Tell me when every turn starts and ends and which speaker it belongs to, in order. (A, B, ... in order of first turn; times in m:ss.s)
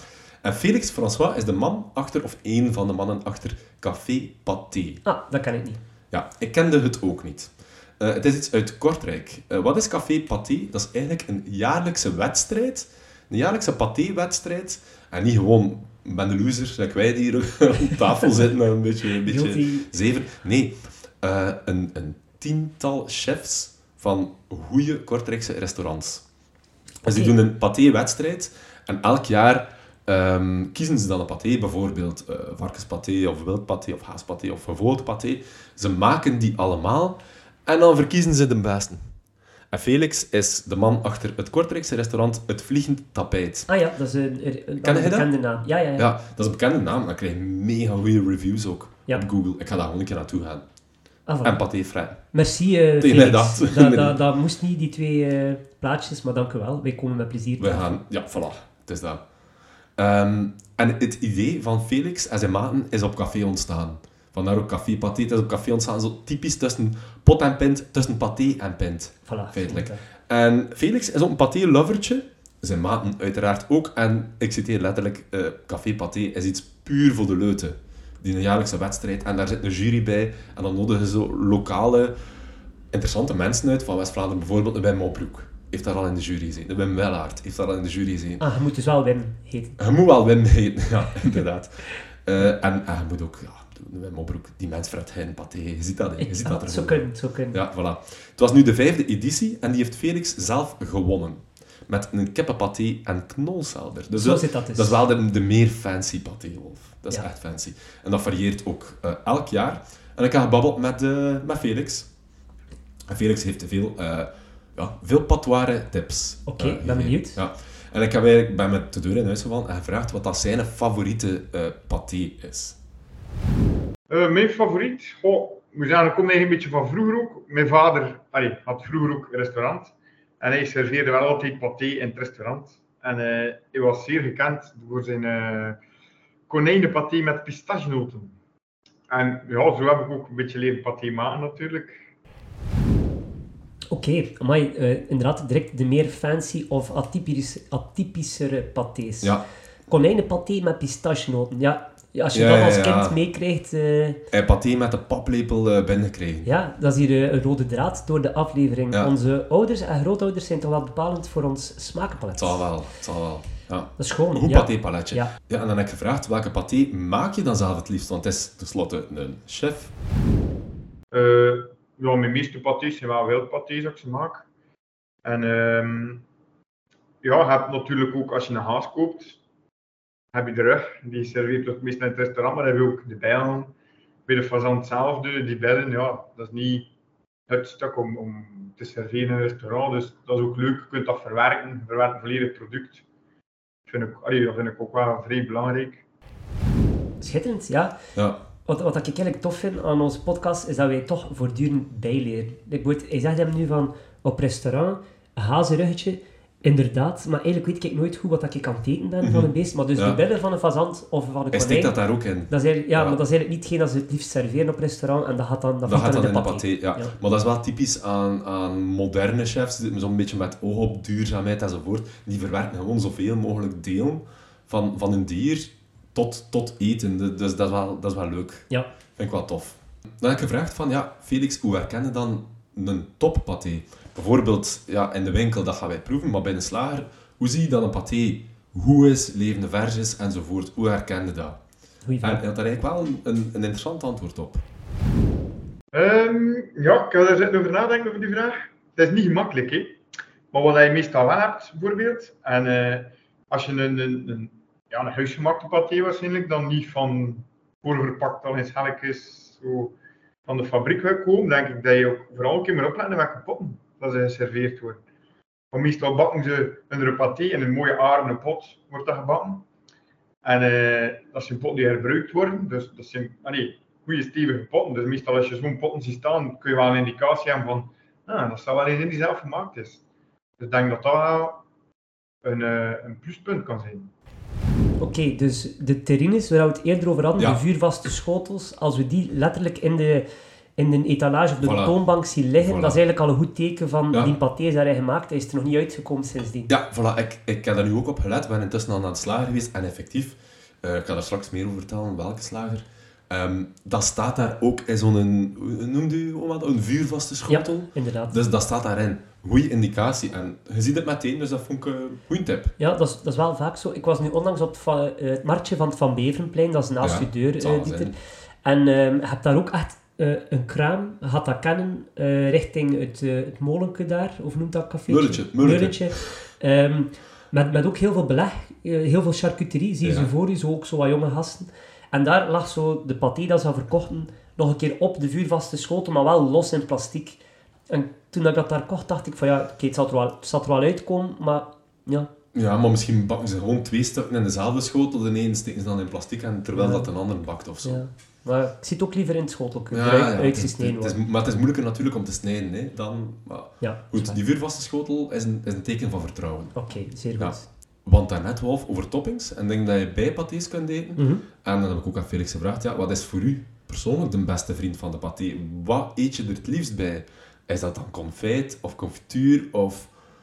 0:00.4-0:05.0 A
0:05.0-0:05.8 B
0:06.1-0:26.2 A
0:19.2-0:19.9 B
0:27.0-0:39.0 A
0:27.1-0:27.3 B
0:39.7-0:43.7 A
0:43.7-0:46.1 B
0:44.8-0:45.3 A
0:46.0-0:50.6 A
0:51.3-0:51.6 B
0:51.4-0:52.2 A
0:52.3-0:58.0 B
0:53.0-0:54.2 A
0:57.6-0:59.2 A
1:00.0-1:22.1 A
1:09.3-1:10.0 B
1:22.9-1:28.4 A
1:28.4-1:29.8 B
1:29.8-1:52.1 A
1:36.2-1:37.6 B
1:44.2-1:45.0 B
1:53.1-2:02.8 A
1:56.5-1:57.4 B
2:04.1-2:15.8 C
2:16.5-2:18.4 C
2:19.1-2:22.0 C
2:23.9-2:29.4 B
2:29.9-2:34.2 B
2:32.3-2:33.2 A
2:34.3-2:36.5 A
2:36.4-2:42.6 B
2:42.4-2:49.9 A
2:44.0-2:45.3 B
2:51.1-2:54.4 C
2:55.2-2:56.2 C
2:57.2-2:59.4 C
3:00.3-3:03.7 C
3:04.3-3:06.9 C
3:07.5-3:13.0 C
3:13.9-3:16.0 C
3:17.2-3:17.9 B
3:18.7-3:32.0 B
3:29.2-3:30.2 A
3:31.5-3:33.2 A
3:32.5-3:37.1 B
3:35.9-4:01.6 A
4:02.0-4:02.4 B
4:02.2-4:04.6 A
4:05.9-4:10.0 C
4:10.5-4:20.0 C
4:20.5-4:25.0 C
4:25.7-4:29.6 C
4:30.4-4:40.0 C
4:40.6-4:41.6 C
4:42.4-4:44.1 C
4:45.0-4:50.3 B
4:50.8-4:56.7 B
4:51.6-4:52.0 A
4:52.6-4:53.0 A
4:56.7-5:12.8 A
5:07.5-5:08.3 B
5:12.8-5:18.1 B
5:17.0-5:18.2 A
5:18.6-5:42.3 B
5:25.1-5:26.3 A
5:30.0-5:30.3 A
5:42.5-5:48.0 A
5:46.7-5:47.1 B
5:47.8-5:51.2 B
5:49.9-5:56.7 A
5:53.8-5:54.4 B
5:56.8-5:57.6 B
5:57.4-6:10.1 A
6:01.2-6:01.4 B